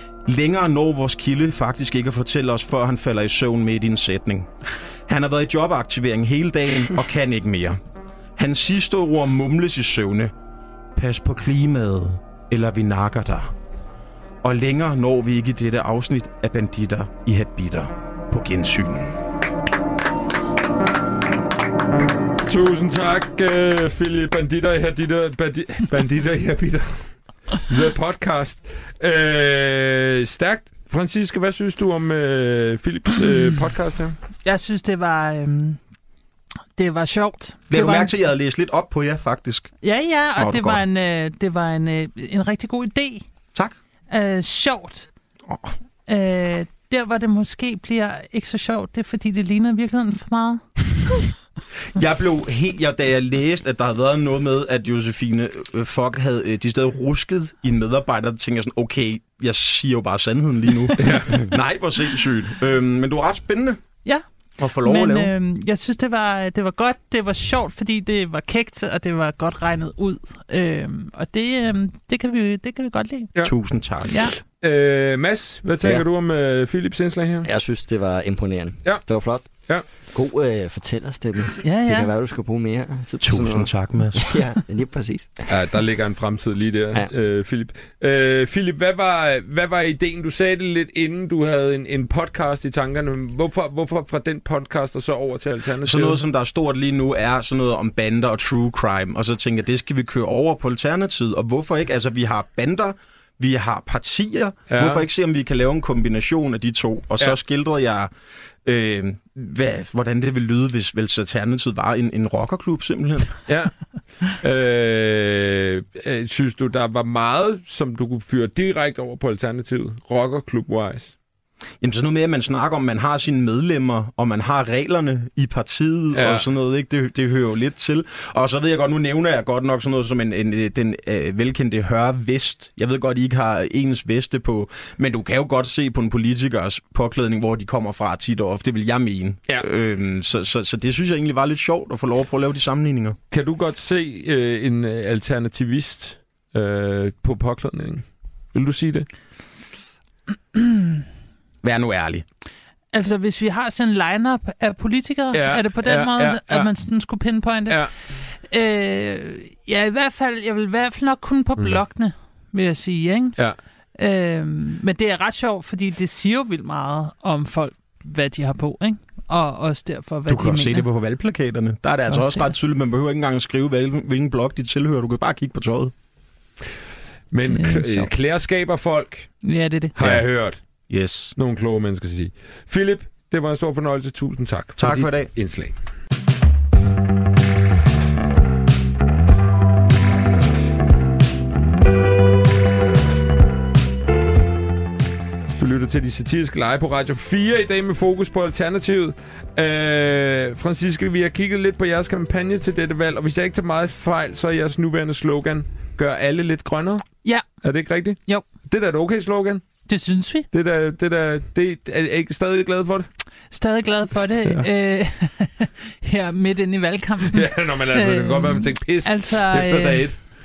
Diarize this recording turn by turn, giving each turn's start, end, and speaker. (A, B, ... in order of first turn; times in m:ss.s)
0:00.2-0:04.5 A
0:05.1-0:07.8 A
0:08.4-0:10.3 A
0:10.9-0:13.5 A
0:14.4-0:19.1 A
0:22.4-0:27.0 B
0:27.7-0:34.2 B
0:34.4-0:35.8 C
0:36.8-0:38.1 C
0:37.7-0:39.7 A
0:39.8-0:43.2 C
0:40.4-0:40.8 A
0:44.1-0:45.1 C
0:46.0-0:50.6 C
0:51.9-1:03.8 A
1:01.0-1:01.5 B
1:04.6-1:05.3 A
1:04.8-1:13.3 C
1:13.4-1:14.2 A
1:14.1-1:14.4 C
1:14.6-1:17.5 B
1:17.4-1:19.5 D
1:20.0-1:25.5 D
1:21.6-1:22.1 C
1:23.2-1:24.4 A
1:25.5-1:36.2 B
1:35.8-1:48.1 A
1:44.7-1:45.0 B
1:48.6-1:53.4 A
1:53.5-1:53.7 B
1:54.2-2:01.1 B
2:01.8-2:23.2 A
2:06.1-2:06.5 B
2:23.3-2:29.1 B
2:31.6-2:32.2 A
2:32.9-2:43.4 C
2:35.3-2:36.7 B
2:43.9-2:50.9 C
2:50.3-2:55.9 A
2:52.1-2:52.5 C
2:57.3-2:59.3 B
2:57.5-2:58.1 C
2:59.4-3:00.0 C
3:00.0-3:00.6 B
3:00.9-3:01.3 A
3:01.4-3:05.7 B
3:04.8-3:05.3 A
3:15.5-3:27.0 B
3:27.6-3:29.6 B
3:29.9-3:30.5 C
3:30.5-3:33.1 B
3:33.5-3:40.1 C
3:37.3-3:40.2 B